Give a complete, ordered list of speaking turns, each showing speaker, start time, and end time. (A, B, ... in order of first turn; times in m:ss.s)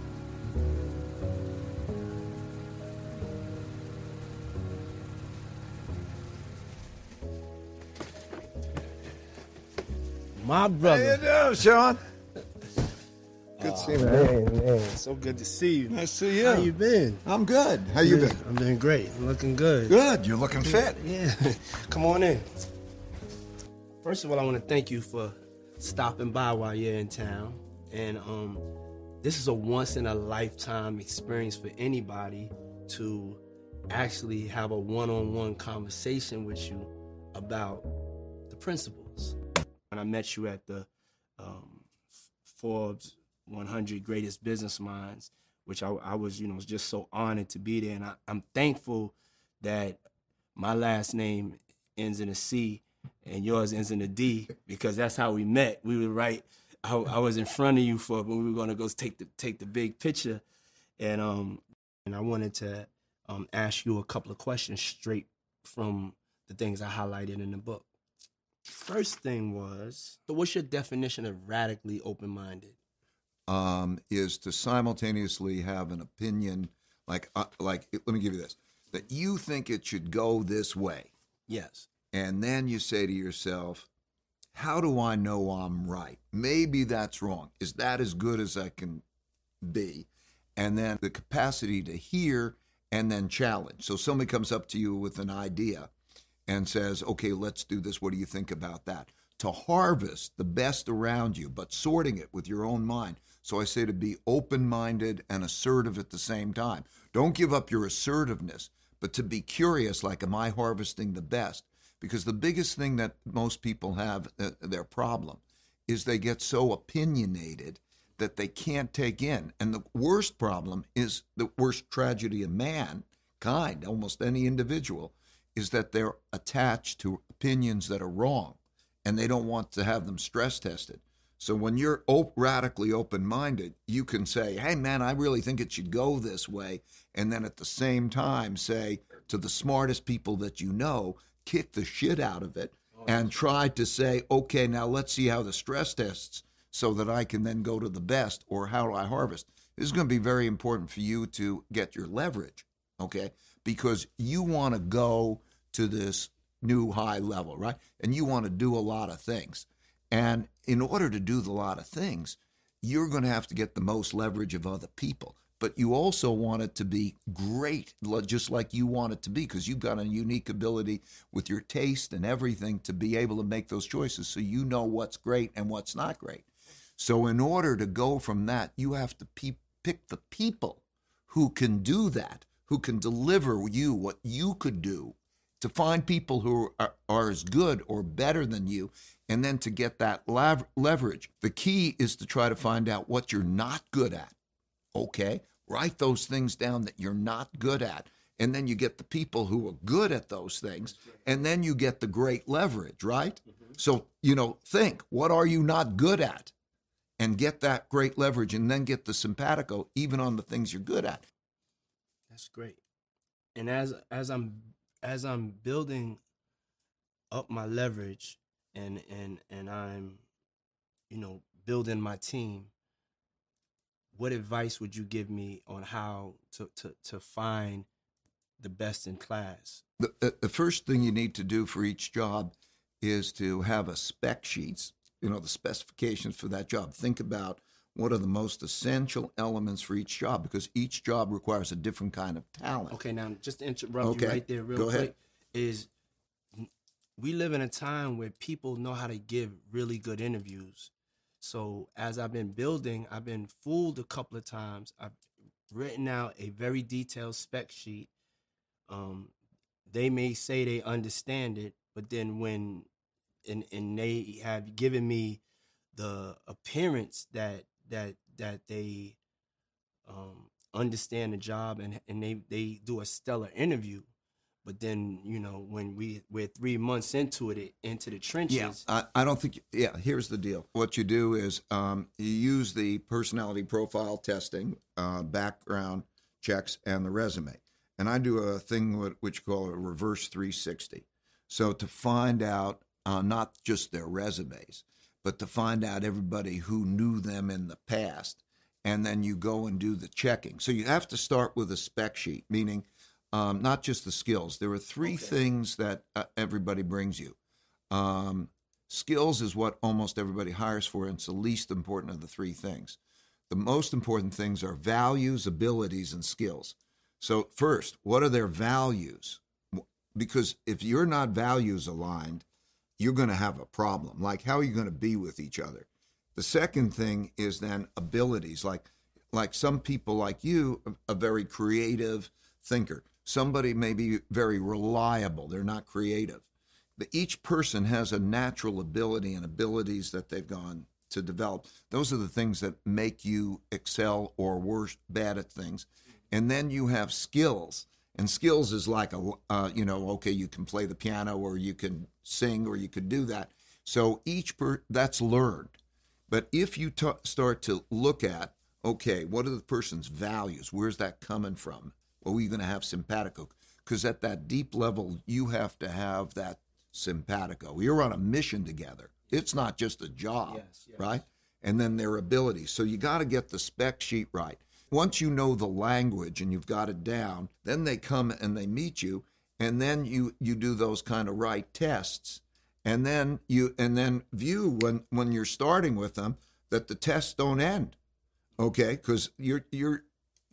0:10.4-0:11.2 A
0:10.8-0:12.0 B
0:13.6-0:17.2 A
0:13.6-0:14.4 B
0:15.9-0:16.7 B
0:17.2-0:18.4 B
0:18.0-0:20.0 A
0:19.9-0:21.0 B
0:20.6-0:22.5 A
0:24.0-0:28.6 A
0:29.2-0:37.9 A
0:38.5-0:39.4 A
0:39.9-0:40.9 A
0:41.4-0:41.9 A
0:42.4-0:50.0 A
0:50.6-1:00.4 A
1:01.0-1:07.8 A
1:08.7-1:12.8 A
1:13.5-1:21.1 B
1:21.5-1:21.9 A
1:22.1-1:23.9 B
1:24.5-1:29.0 B
1:29.6-1:35.9 B
1:36.5-2:56.4 B
2:23.0-2:23.2 A
2:57.0-3:14.3 B
3:14.9-3:26.5 B
3:27.2-3:31.2 B
3:32.3-3:32.8 A
3:33.5-3:36.2 A
3:37.3-3:40.2 A
3:41.1-3:42.7 A
3:44.1-3:47.9 A
3:48.6-3:49.8 A
3:50.0-4:03.0 B
4:02.9-4:05.9 A
4:04.0-4:05.1 B
4:06.5-4:15.1 A
4:15.7-4:18.1 A
4:18.9-4:19.3 A
4:19.9-4:22.9 A
4:23.4-4:25.4 A
4:25.9-4:29.2 A
4:30.0-4:34.1 A
4:34.6-4:38.8 A
4:38.5-5:07.4 B
5:05.0-5:05.3 A
5:07.9-5:13.0 B
5:13.5-5:22.4 B
5:23.0-5:36.4 B
5:37.0-5:55.8 B
5:56.3-6:28.0 B
6:10.5-6:11.2 A
6:28.6-6:30.0 B